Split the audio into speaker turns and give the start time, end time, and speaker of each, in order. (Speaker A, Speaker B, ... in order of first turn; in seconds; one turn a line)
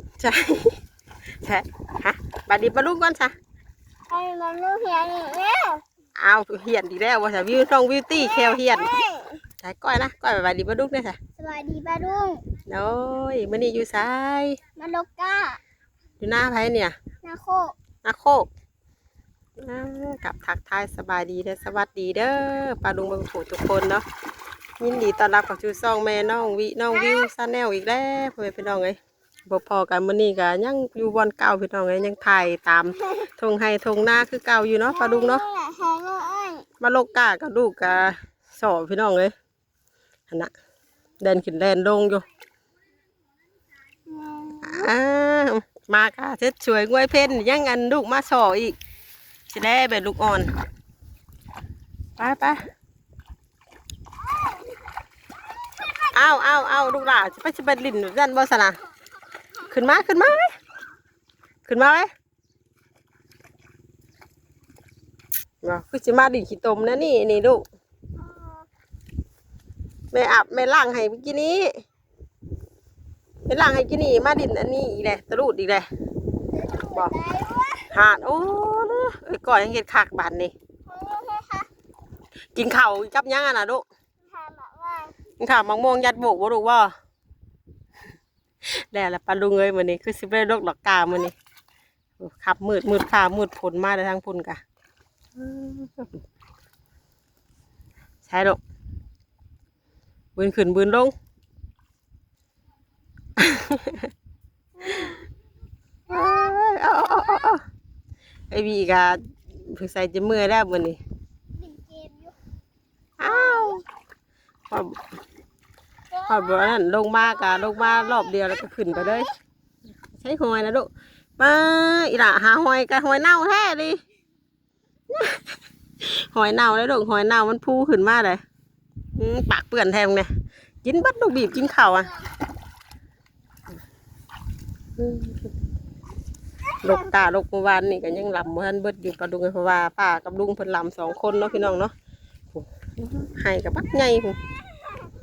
Speaker A: 0.2-0.8
Speaker A: 1.4-3.3
Speaker B: 4.1-5.8
Speaker A: 6.2-9.0
Speaker B: 8.1-9.4
Speaker A: 9.6-11.2
Speaker B: 11.4-12.4
Speaker A: 12.7-14.6
Speaker B: 14.8-15.6
Speaker A: 16.2-16.9
Speaker B: 17.2-17.7
Speaker A: 18.0-18.5
Speaker A: 19.6-24.0
Speaker A: 24.8-35.4
Speaker B: 34.9-36.7
Speaker A: 36.8-39.3
Speaker A: 41.2-42.2
Speaker B: 44.1-44.8
Speaker A: 44.6-48.8
Speaker A: 49.5-50.5
Speaker A: 52.2-52.6
Speaker A: 56.1-58.8
Speaker A: 59.7-60.5
Speaker A: 61.6-62.1
Speaker A: 65.6-67.6
Speaker B: 68.2-68.6
Speaker A: 70.1-71.7
Speaker A: 73.5-75.9
Speaker B: 76.5-77.9
Speaker A: 77.9-80.5
Speaker B: 80.8-81.7
Speaker A: 82.5-83.8
Speaker B: 84.2-85.1
Speaker A: 85.4-86.9
Speaker A: 88.7-91.3
Speaker A: 92.2-94.6
Speaker A: 95.4-96.2
Speaker A: 98.2-98.6
Speaker A: 100.3-101.1
Speaker A: 103.4-104.1
Speaker A: 104.8-105.1
Speaker B: 104.9-105.2
Speaker A: 106.1-107.6
Speaker A: 108.5-111.0
Speaker B: 111.6-112.3
Speaker A: 113.2-113.8
Speaker B: 113.2-113.8
Speaker A: 114.7-115.0
Speaker B: 116.1-116.7
Speaker A: 116.2-119.3
Speaker B: 117.4-118.3
Speaker A: 120.1-124.0
Speaker A: 125.1-125.4
Speaker A: 126.0-128.4
Speaker A: 129.1-130.3
Speaker A: 130.8-132.1
Speaker A: 135.0-135.5
Speaker A: 136.8-141.9
Speaker A: 142.5-144.4